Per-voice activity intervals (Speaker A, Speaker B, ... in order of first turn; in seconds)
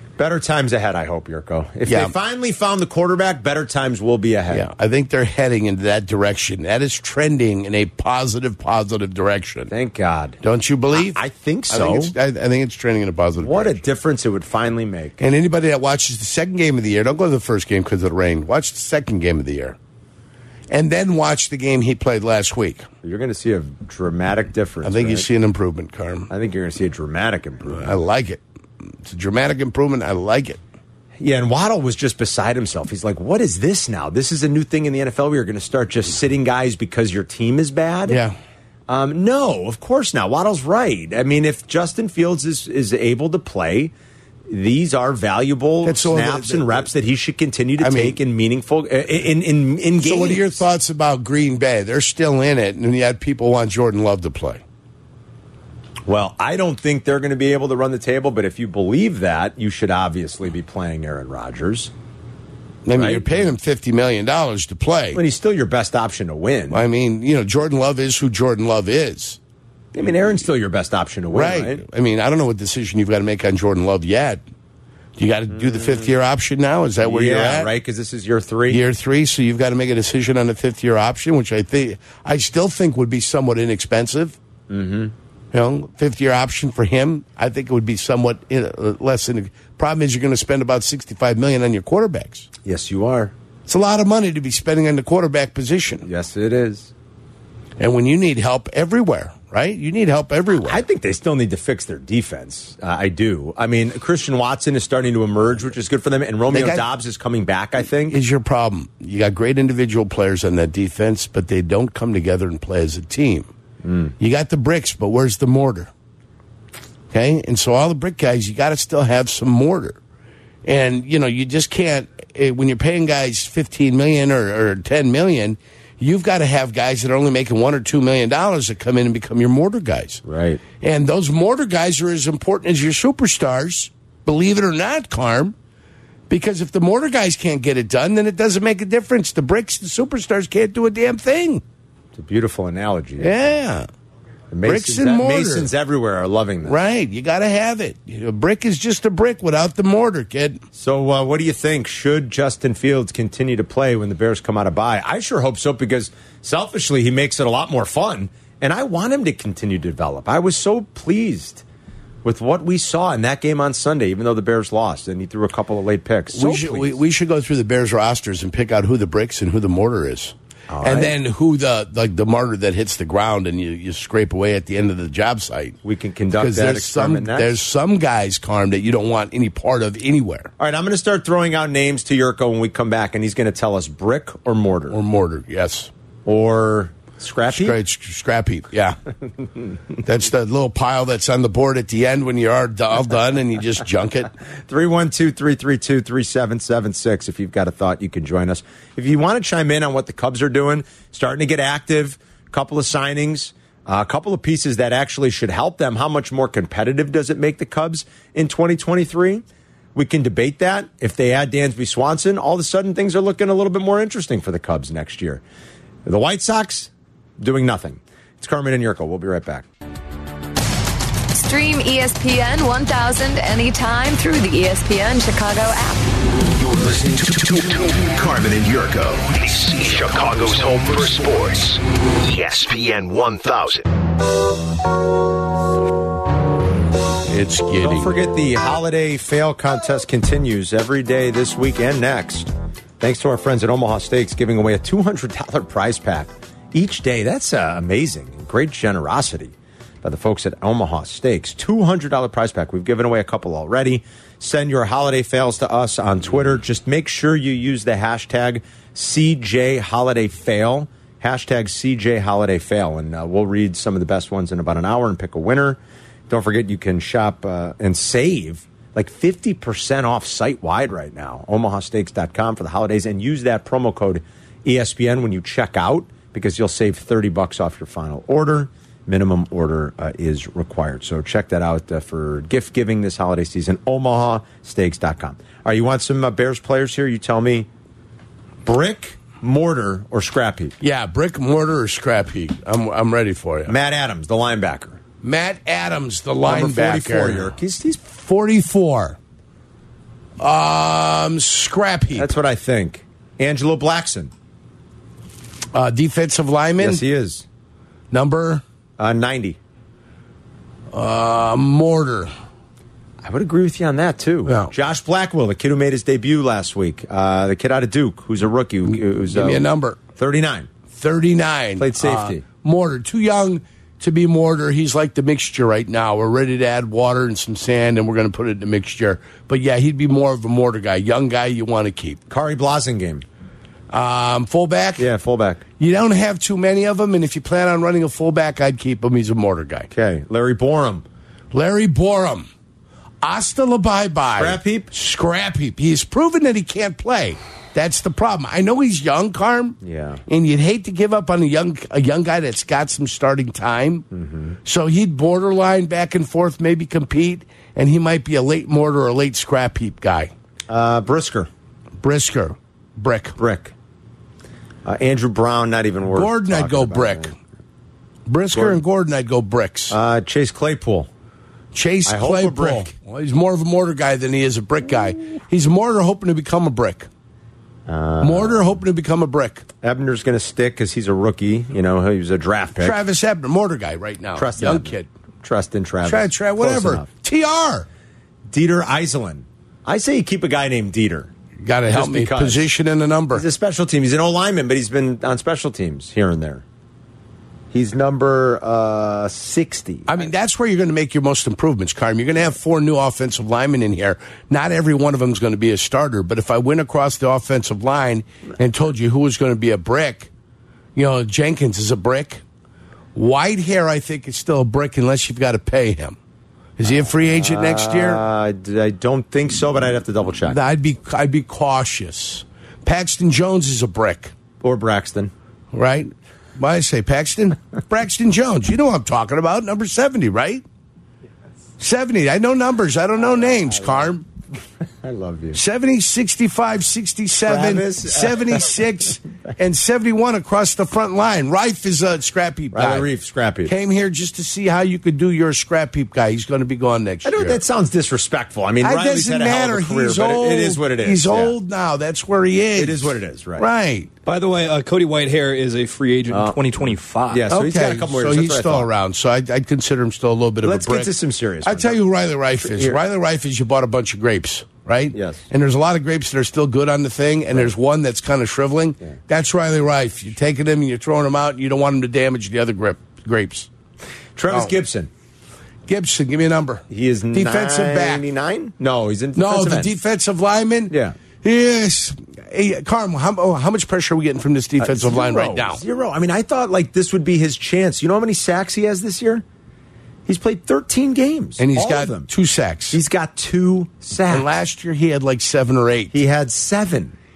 Speaker A: 0.2-4.7, 9.7-10.4, 10.9-12.1, 13.4-15.2, 23.0-25.3, 26.3-27.9, 31.2-38.2, 38.9-43.9, 44.5-50.6, 56.1-61.9, 63.0-63.3, 65.1-66.8, 69.9-71.8, 75.5-76.1, 77.0-78.8, 84.7-85.1, 92.6-93.3, 96.0-96.9, 100.7-108.2, 113.8-114.1, 130.2-130.6, 142.2-143.3, 144.5-146.8, 150.8-161.6, 162.2-167.0, 170.7-171.2, 175.8-177.6, 180.6-185.0, 186.2-187.8, 194.7-209.4, 209.9-215.4, 216.1-219.7, 237.8-287.7, 288.6-290.8, 293.7-295.0, 296.4-298.0, 302.1-304.3, 306.8-307.4, 309.0-309.6, 313.2-319.6, 320.2-320.7, 321.8-322.4, 332.3-333.2, 335.0-335.6, 339.9-341.1, 344.4-344.9, 349.8-350.2, 354.1-354.6, 360.7-361.5, 363.4-363.7, 364.9-367.3, 368.5-368.8, 369.9-371.1, 372.1-372.9, 377.9-378.8, 379.8-383.0, 384.4-387.1, 388.5-391.3, 391.9-392.7, 393.3-396.6, 397.7-400.2, 417.2-420.6, 424.6-425.3, 433.2-434.1, 435.0-435.6, 437.4-438.8, 442.7-443.7, 447.2-451.5, 452.8-453.7, 456.3-456.6, 457.3-458.9, 460.6-462.0, 462.6-463.0, 465.1-465.4, 474.4-475.1, 476.9-479.9, 480.9-481.2, 484.8-489.4, 490.3-492.3, 492.9-494.5, 496.1-497.1
Speaker B: 1.9-2.1, 4.5-9.7, 10.4-13.8, 15.2-19.8, 20.7-22.9, 24.8-26.3, 27.7-30.6, 38.1-38.4, 45.8-46.9, 47.8-48.2, 50.0-54.6, 62.9-65.2, 66.7-69.4, 71.3-74.4, 75.2-77.7, 78.7-84.4, 85.5-92.5, 93.7-96.1, 97.8-100.8, 106.5-106.9, 107.8-113.5, 114.2-115.9, 117.1-120.0, 120.7-130.2, 130.8-135.6, 136.3-141.6, 143.2-143.9, 144.6-145.7, 146.6-150.6, 166.3-175.8, 176.3-180.5, 184.9-185.9, 187.5-189.0, 190.0-194.3, 237.3-238.2, 290.8-293.8, 295.2-299.2, 300.4-302.3, 305.7-307.0, 308.1-308.6, 310.9-312.3, 314.5-314.7, 318.9-320.0, 320.9-332.2, 333.9-335.1, 335.8-339.9, 341.5-342.5, 343.2-354.1, 354.6-360.3, 362.0-363.4, 366.1-367.3, 368.3-370.0, 371.7-377.1, 378.2-379.7, 382.8-385.1, 386.0-387.9, 391.6-393.5, 400.1-410.3, 410.9-412.4, 413.1-416.2, 416.8-418.2, 420.4-424.3, 425.7-430.6, 431.8-434.2, 435.5-443.1, 443.6-447.6, 448.8-454.1, 457.5-473.7, 474.5-474.7, 475.9-478.2, 479.4-485.8, 491.6-493.0, 494.3-496.1
Speaker C: 221.3-226.1
Speaker D: 226.6-233.9
Speaker E: 454.2-457.5